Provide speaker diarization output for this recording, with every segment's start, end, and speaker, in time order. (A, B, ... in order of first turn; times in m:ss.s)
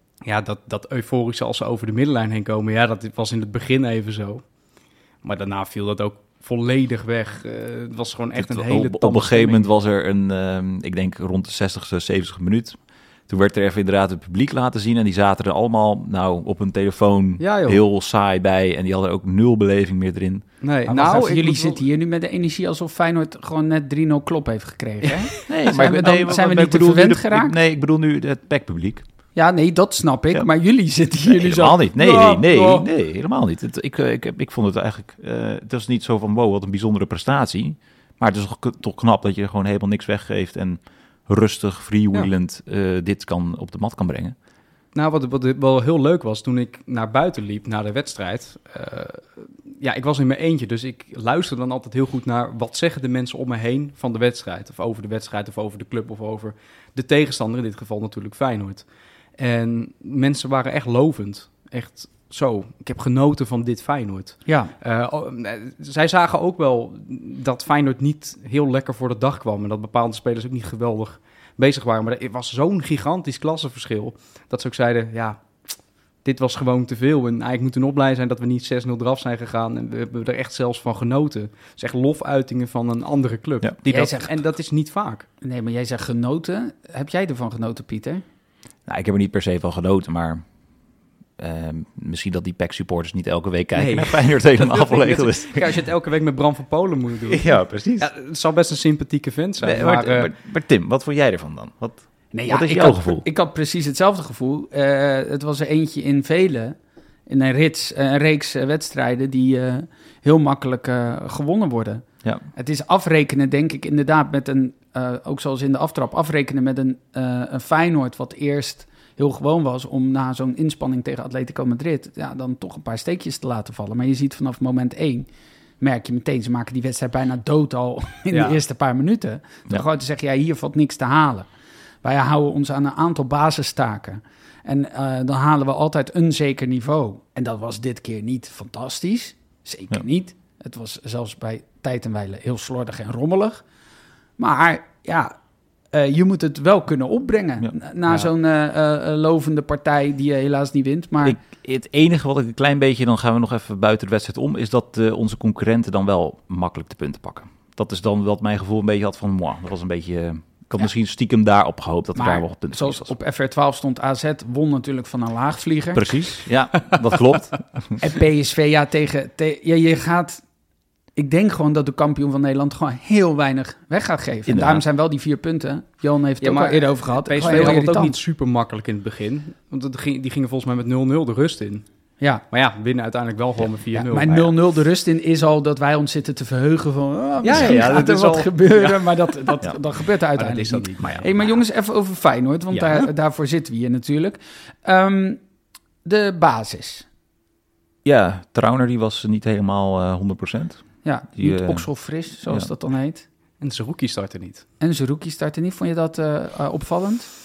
0:00.2-0:09.7 A
0:08.4-0:20.6 B
0:17.4-0:17.8 A
0:20.6-0:21.8 A
0:20.8-0:27.6 C
0:25.5-0:29.0 B
0:29.3-0:32.9 C
0:31.2-0:44.3 B
0:44.9-1:25.3 A
1:04.4-1:04.7 C
1:23.8-1:24.3 C
1:25.4-1:28.2 C
1:28.8-1:30.5 B
1:31.4-1:35.8 B
1:33.8-1:40.3 A
1:37.3-1:38.1 B
1:39.6-1:43.2 B
1:42.3-2:05.3 C
2:05.8-2:11.5 C
2:08.3-2:08.6 A
2:12.0-2:23.6 C
2:24.4-2:25.3 C
2:25.9-2:31.4 C
2:31.2-2:43.1 B
2:42.1-2:46.4 C
2:45.9-2:48.0 B
2:48.0-2:50.4 C
2:51.1-2:58.2 C
2:54.5-2:54.8 B
2:56.4-3:01.9 A
3:02.5-3:04.5 A
3:03.9-3:15.4 C
3:07.4-3:09.6 A
3:07.5-3:07.8 B
3:10.3-3:11.6 A
3:12.7-3:13.1 A
3:16.0-3:17.0 C
3:18.0-3:21.9 B
3:21.0-3:23.2 C
3:23.6-3:24.6 A
3:24.8-3:27.3 C